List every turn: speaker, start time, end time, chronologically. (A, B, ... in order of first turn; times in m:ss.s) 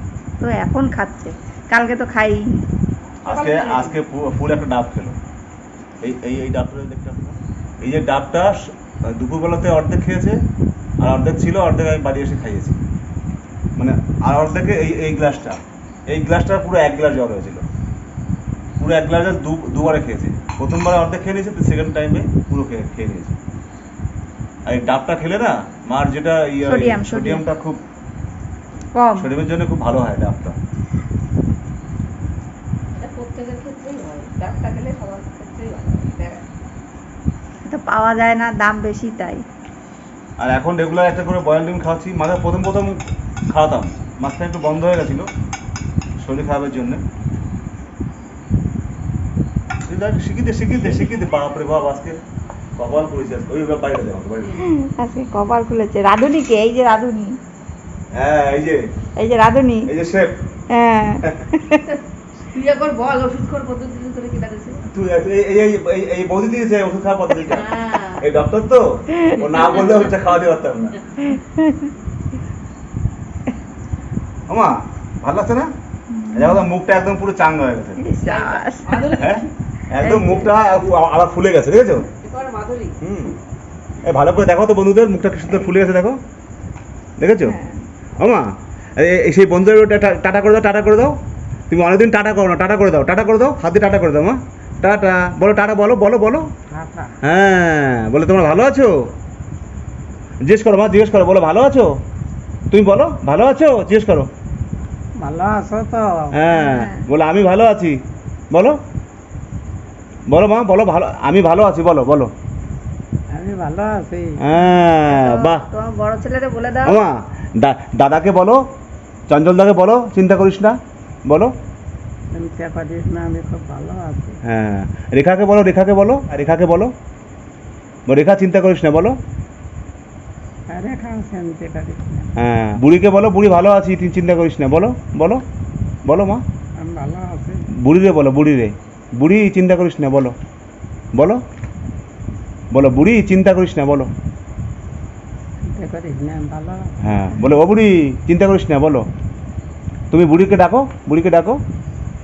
0:00.4-0:02.6 A
0:03.2-0:04.0 B
0:03.2-0:05.2 C
0:06.0-0:10.4 C
0:11.0-0:12.8 C
0:13.8-0:17.6 C
0:18.8-0:23.4 C
0:24.6-0:27.8 C
0:26.6-0:27.4 A
0:28.9-0:29.3 A
0:29.2-0:30.6 C
0:33.0-0:36.4 B
0:37.7-0:39.4 A
0:40.4-0:43.0 C
0:43.5-0:45.3 C
0:46.2-0:47.0 C
0:49.8-0:52.2 C
0:52.8-0:54.6 C
0:54.6-0:57.4 A
0:58.1-0:58.9 C
0:59.2-0:59.9 A
0:59.9-1:00.4 C
1:00.7-1:01.8 A
1:01.8-1:04.8 B
1:04.9-1:11.0 C
1:07.4-1:08.2 B
1:09.6-1:10.1 B
1:11.3-1:11.8 A
1:14.5-1:15.7 C
1:16.1-1:16.7 A
1:16.3-1:18.1 C
1:18.0-1:19.1 A
1:18.2-1:19.5 B
1:19.2-1:22.1 C
1:20.0-1:20.5 A
1:22.2-1:23.0 B
1:23.0-1:23.4 C
1:24.0-1:26.2 C
1:27.2-1:27.6 C
1:27.4-1:27.8 A
1:28.2-1:31.2 C
1:31.7-1:36.5 C
1:36.7-1:37.1 D
1:37.2-1:38.9 C
1:40.4-1:41.9 C
1:42.7-1:44.3 C
1:45.2-1:46.4 D
1:46.3-1:48.0 C
1:46.5-1:47.1 A
1:48.5-1:48.8 C
1:50.3-1:52.3 C
1:53.3-1:54.4 D
1:54.4-1:55.7 C
1:55.1-1:57.0 A
1:56.8-1:58.6 C
1:59.3-2:01.5 C
2:02.3-2:04.4 D
2:04.4-2:06.9 C
2:08.1-2:09.2 C
2:10.7-2:12.3 D
2:12.4-2:15.4 C
2:16.0-2:16.4 C
2:16.8-2:17.7 D
2:17.8-2:20.4 C
2:21.1-2:21.4 C
2:22.7-2:24.1 C
2:25.6-2:27.0 D
2:27.0-2:29.1 C
2:30.1-2:31.6 C